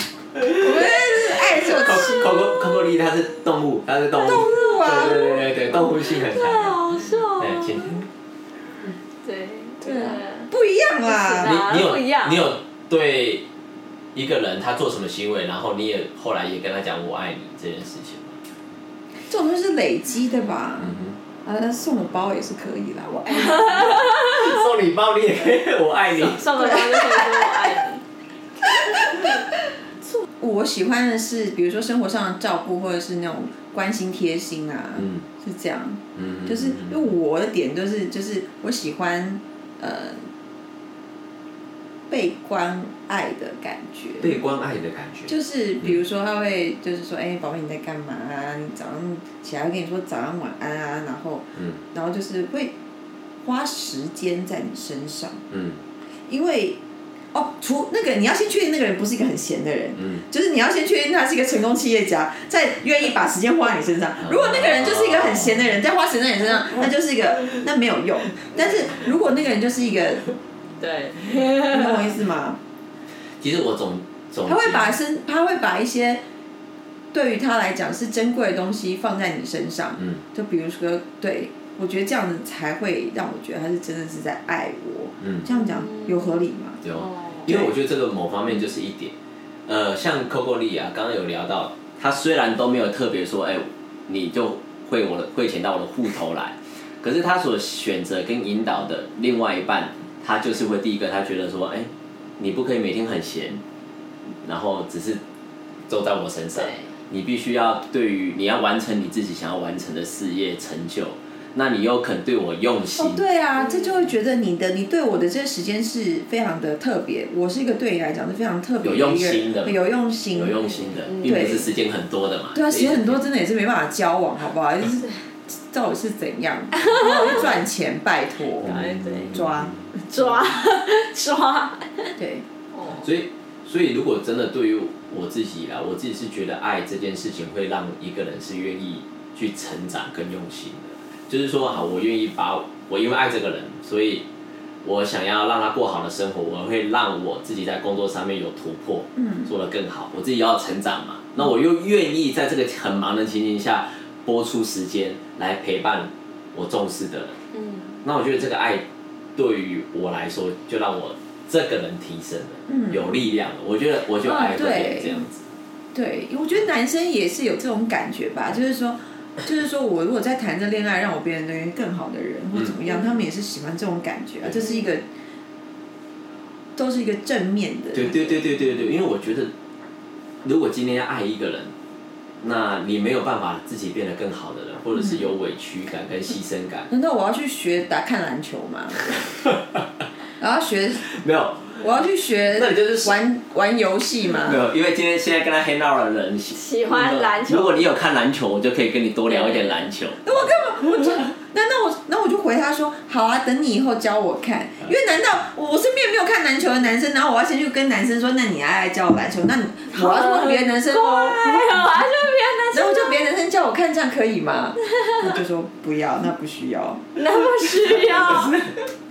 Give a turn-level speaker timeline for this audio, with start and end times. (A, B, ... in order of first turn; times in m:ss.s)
0:00.4-0:00.7 A
0:00.4-0:02.5 B
0:01.5-0:06.8 A
0:04.2-0:05.5 B
0:05.0-0:08.0 C
0:07.4-0:08.1 A
0:09.2-0:10.5 C
0:09.8-0:11.6 B
0:11.0-0:12.5 C
0:11.4-0:13.5 A
0:14.1-0:18.4 A
0:19.3-0:24.0 B
0:20.8-0:21.2 A
0:24.0-0:26.6 A
0:26.2-0:28.0 C
0:26.5-0:27.7 B
0:28.6-0:29.4 B
0:29.0-0:29.3 C
0:30.4-0:40.2 B
0:35.0-0:35.2 A
0:36.2-0:37.1 A
0:42.1-0:44.4 B
0:44.2-0:46.0 A
0:45.3-0:52.7 B
0:53.4-0:55.4 B
0:55.5-0:55.8 A
0:56.3-0:56.8 B
0:57.3-1:10.2 B
1:00.0-1:00.2 A
1:04.2-1:05.7 A
1:10.8-1:12.1 C
1:11.6-1:12.6 B
1:13.4-1:15.0 A
1:14.4-1:16.2 B
1:17.1-1:26.8 B
1:25.2-1:25.5 A
1:25.5-1:26.2 C
1:26.8-1:29.1 A
1:27.0-1:27.5 C
1:29.7-1:43.6 A
1:44.4-1:45.2 A
1:45.9-1:53.2 A
1:46.6-1:46.9 C
1:53.0-2:00.6 B
1:53.6-1:54.1 C
1:58.8-1:59.8 A
2:00.3-2:03.2 A
2:01.0-2:01.6 C
2:01.2-2:01.7 B
2:02.5-2:05.1 B
2:05.7-2:09.7 B
2:06.8-2:07.5 C
2:08.6-2:09.4 C
2:08.6-2:09.8 A
2:10.1-2:12.1 C
2:12.2-2:12.4 B
2:12.7-2:13.1 C
2:13.0-2:24.2 A
2:24.8-2:37.4 A
2:29.2-2:29.5 B
2:37.5-2:38.0 C
2:38.0-2:45.4 A
2:42.7-2:43.2 B
2:44.2-2:45.3 B
2:45.9-2:55.0 B
2:52.9-2:53.1 C
2:56.8-2:58.4 B
2:57.9-2:59.5 A
3:00.4-3:01.7 A
3:02.4-3:06.9 A
3:06.9-3:09.0 B
3:10.4-3:11.0 B
3:11.1-3:11.8 A
3:11.8-3:14.6 B
3:12.5-3:13.2 A
3:14.4-3:20.2 A
3:16.6-3:17.9 C
3:19.3-3:19.9 C
3:20.2-3:31.9 B
3:29.9-3:33.3 C
3:32.7-3:37.1 B
3:34.8-3:35.3 C
3:37.2-3:38.6 C
3:38.2-3:38.6 B